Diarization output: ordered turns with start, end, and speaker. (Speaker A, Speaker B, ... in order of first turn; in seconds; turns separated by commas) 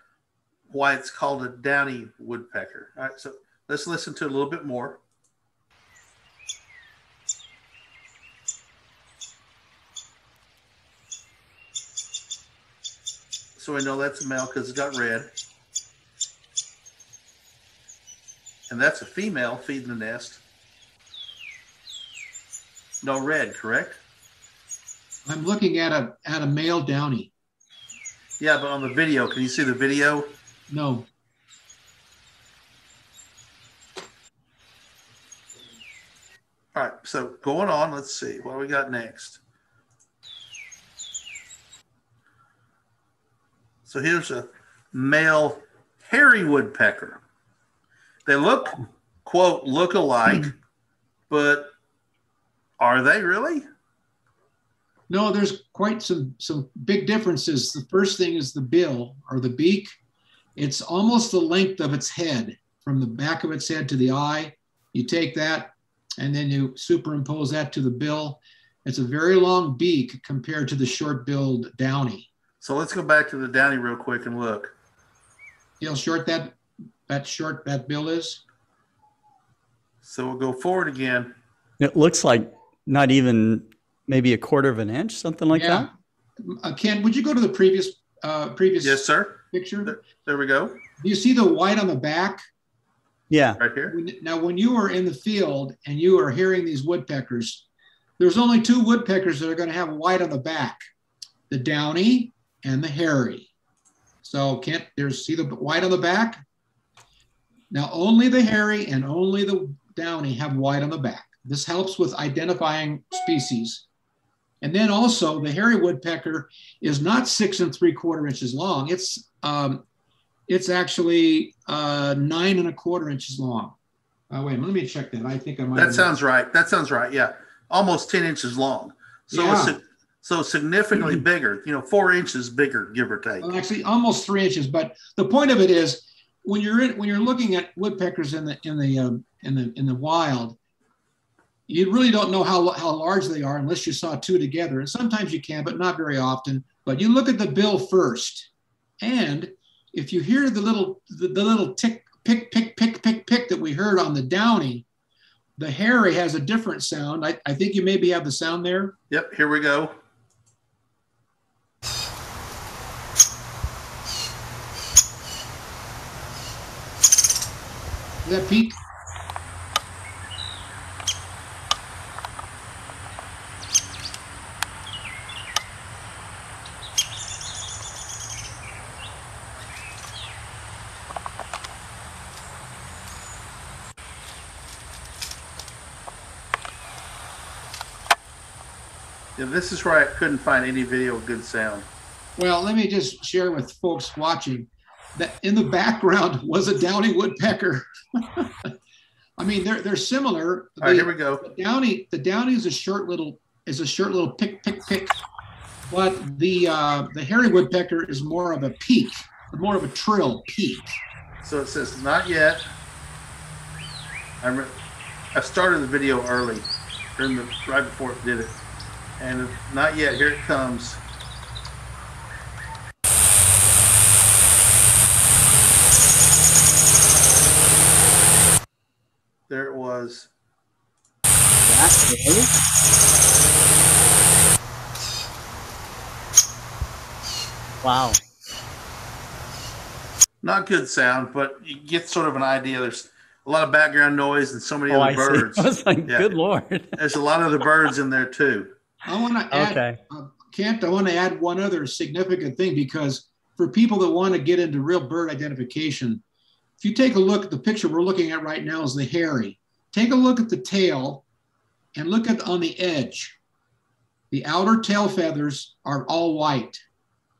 Speaker A: 0.7-5.0, Speaker A: 13.6-15.3, Speaker A: 18.7-20.4, Speaker A: 23.0-24.0, Speaker B: 25.2-27.3, Speaker A: 28.4-30.3, Speaker B: 30.7-31.1, Speaker A: 36.7-39.4, Speaker A: 43.9-47.2, Speaker A: 48.2-50.5, Speaker A: 51.3-51.7, Speaker A: 52.8-53.6, Speaker B: 55.1-59.9, Speaker B: 60.6-72.3, Speaker A: 72.6-74.7, Speaker B: 75.8-76.6, Speaker B: 77.1-78.4, Speaker A: 80.0-81.3, Speaker C: 81.8-85.9, Speaker B: 85.5-85.9, Speaker B: 86.4-90.0, Speaker A: 88.8-90.8, Speaker B: 91.0-92.4, Speaker C: 93.3-93.6, Speaker A: 93.6-93.9, Speaker B: 93.9-97.7, Speaker B: 98.2-100.8, Speaker B: 101.5-103.5, Speaker B: 104.2-106.4, Speaker B: 107.7-113.8, Speaker B: 114.6-119.8, Speaker B: 120.5-123.8, Speaker B: 124.3-126.1, Speaker A: 125.8-133.5, Speaker B: 129.3-129.8, Speaker B: 133.4-140.6, Speaker B: 141.7-148.5, Speaker B: 149.0-154.8, Speaker B: 155.6-158.9, Speaker A: 159.1-160.0, Speaker B: 168.2-168.8, Speaker A: 189.4-191.8, Speaker B: 192.4-198.7, Speaker B: 199.4-205.2, Speaker A: 200.8-201.4, Speaker B: 205.9-211.0, Speaker A: 211.4-212.6, Speaker A: 214.4-214.7, Speaker A: 215.3-218.6, Speaker A: 219.2-221.0, Speaker A: 229.5-230.3, Speaker C: 231.6-232.5, Speaker C: 237.8-238.2, Speaker A: 240.4-246.3, Speaker C: 244.9-247.0, Speaker A: 246.9-248.7, Speaker B: 249.1-256.2, Speaker C: 249.5-250.0, Speaker B: 256.8-261.2, Speaker B: 261.9-263.4, Speaker B: 264.3-266.8